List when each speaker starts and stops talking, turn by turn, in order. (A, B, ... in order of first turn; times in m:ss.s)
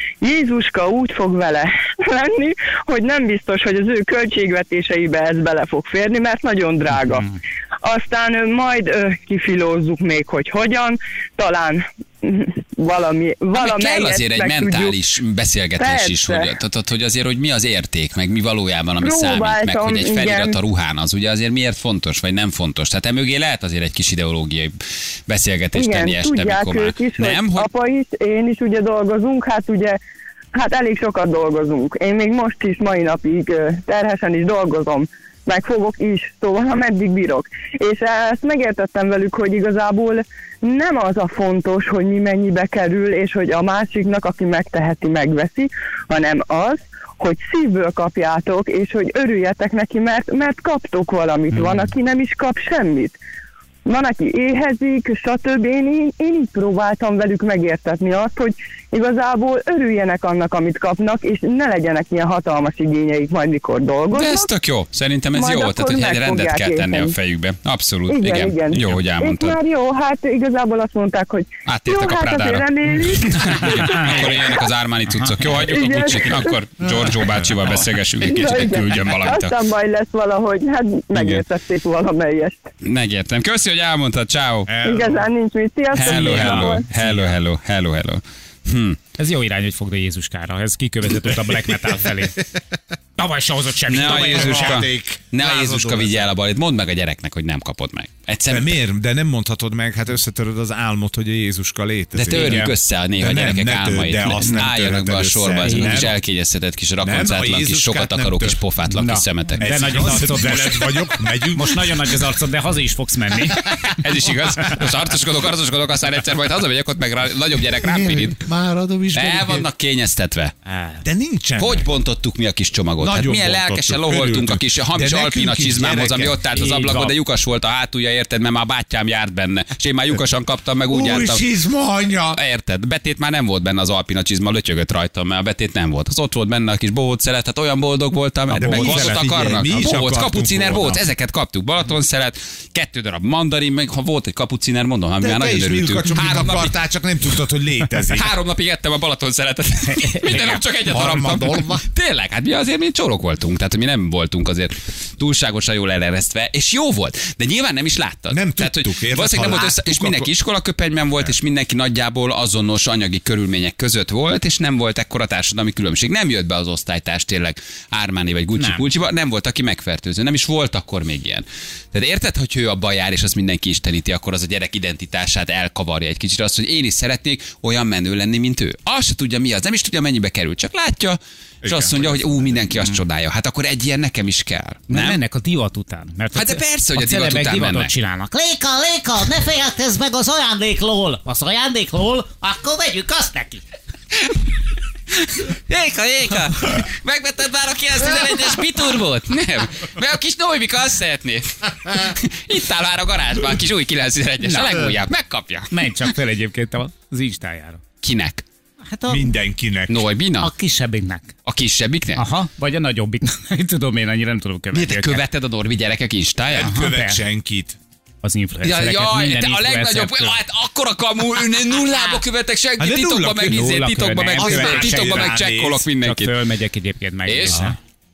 0:00.2-0:15.0 A
0:13.5-0:27.7 B
0:15.8-0:16.5 A
0:19.0-0:20.6 A
0:25.7-0:30.0 A
0:30.5-0:53.2 A
0:53.8-1:04.5 A
1:04.1-1:09.6 B
1:05.3-1:07.1 A
1:08.1-1:14.7 A
1:11.6-1:19.6 B
1:15.5-1:16.6 A
1:16.8-1:17.4 C
1:18.2-1:22.6 A
1:21.1-1:21.4 B
1:22.8-1:24.7 B
1:24.7-1:25.3 C
1:24.8-1:26.8 A
1:25.9-1:29.0 B
1:26.0-1:27.4 D
1:29.2-1:32.4 D
1:33.2-1:34.8 D
1:33.9-1:38.8 B
1:33.9-1:36.3 C
1:38.5-1:46.2 C
1:42.1-1:49.6 B
1:42.3-1:42.7 D
1:45.6-1:46.1 D
1:47.0-1:48.6 C
1:48.9-1:54.0 D
1:49.6-1:52.2 C
1:53.6-1:58.4 B
1:57.7-1:59.7 C
1:59.1-2:00.5 B
2:00.6-2:01.0 D
2:01.0-2:01.9 C
2:01.6-2:11.5 B
2:03.0-2:06.4 C
2:06.5-2:07.2 D
2:10.9-2:12.4 C
2:12.3-2:26.8 B
2:18.5-2:21.0 C
2:18.6-2:19.0 D
2:25.2-2:28.3 C
2:27.9-3:05.2 B
2:30.0-2:30.4 D
2:30.6-2:31.8 C
2:38.3-2:40.3 C
2:48.6-2:48.9 D
3:01.6-3:02.2 C
3:04.9-3:08.3 D
3:06.3-3:07.9 B
3:08.3-3:13.6 E
3:15.1-3:25.9 B
3:24.4-3:24.9 D
3:25.7-3:27.8 D
3:28.0-3:28.4 B
3:28.9-3:29.3 D
3:29.1-3:30.1 C
3:29.9-3:30.5 B
3:30.4-3:31.3 D
3:31.4-3:32.2 B
3:32.2-3:35.2 D
3:34.7-3:36.8 B
3:36.5-3:37.8 C
3:36.6-3:37.2 D
3:38.2-3:40.4 D
3:38.6-3:46.4 B
3:42.8-3:45.8 C
3:43.4-3:45.4 D
3:46.0-3:47.8 D
3:47.2-3:47.7 B